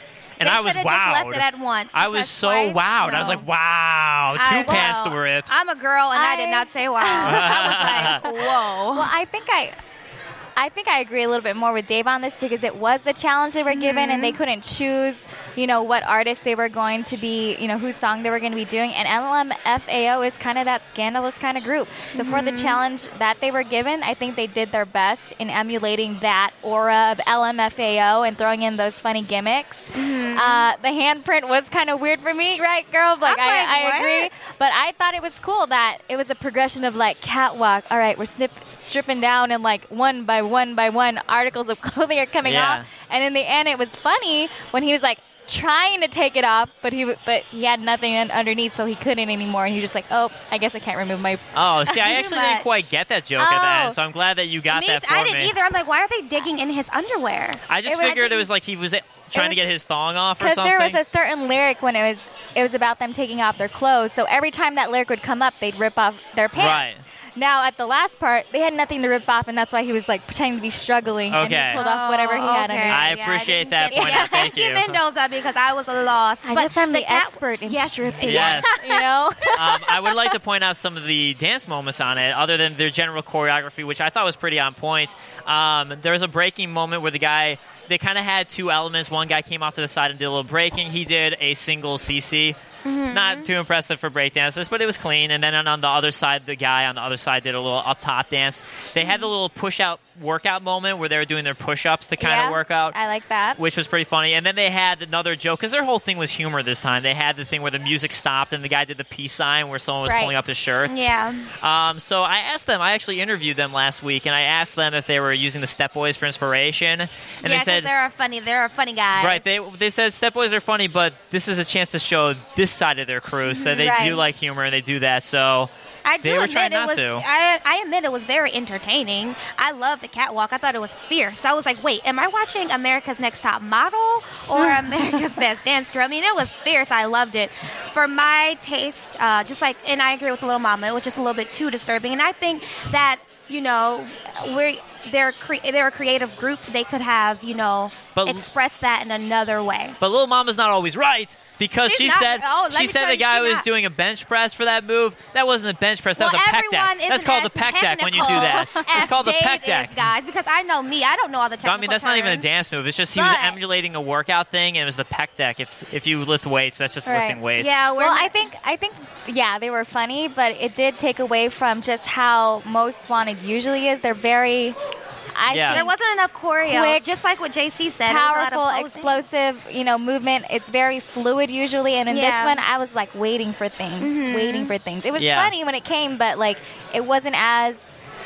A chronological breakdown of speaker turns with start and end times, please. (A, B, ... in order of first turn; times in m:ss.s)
0:00.4-0:05.6 A
0:00.4-0:03.5 B
0:03.1-0:03.4 C
0:04.4-0:09.1 B
0:06.1-0:08.3 C
0:07.2-0:08.2 A
0:08.9-0:09.8 C
0:10.6-0:52.1 C
0:13.7-0:14.4 B
0:22.1-0:22.8 B
0:29.9-0:30.7 B
0:33.2-0:34.3 B
0:42.4-0:42.8 A
0:51.5-0:55.5 A
0:52.0-0:52.7 B
0:53.4-0:54.0 C
0:54.7-0:58.2 B
0:57.7-1:01.0 A
0:57.8-0:58.5 C
0:59.3-0:59.6 C
1:00.4-1:13.1 C
1:06.5-1:07.0 A
1:11.3-1:11.8 A
1:11.7-1:18.9 B
1:12.9-1:15.0 A
1:13.9-1:14.5 C
1:16.4-1:20.1 C
1:18.2-1:18.8 A
1:19.5-1:32.6 A
1:32.8-1:33.5 B
1:33.1-1:43.0 A
1:39.0-1:39.3 B
1:42.2-1:43.6 C
1:43.6-1:50.9 A
1:50.0-1:50.3 C
1:50.9-1:51.5 B
1:51.6-1:57.9 A
1:57.4-1:59.4 B
1:59.2-2:05.7 A
2:03.4-2:04.2 B
2:03.8-2:04.2 C
2:06.0-2:30.0 B
2:06.2-2:07.2 A
2:28.2-2:28.5 A
2:30.0-2:40.0 A
2:31.8-2:33.7 B
2:36.2-2:42.5 B
2:38.2-2:38.9 C
2:41.6-2:47.8 A
2:43.1-2:43.6 B
2:47.0-2:47.4 C
2:47.6-2:48.4 B
2:48.0-2:54.8 C
2:55.3-2:55.9 C
2:55.5-2:55.8 A
2:55.7-2:59.2 B
2:56.6-2:57.0 C
2:58.0-3:07.8 C
3:02.1-3:02.6 B
3:04.0-3:04.7 B
3:05.2-3:05.5 A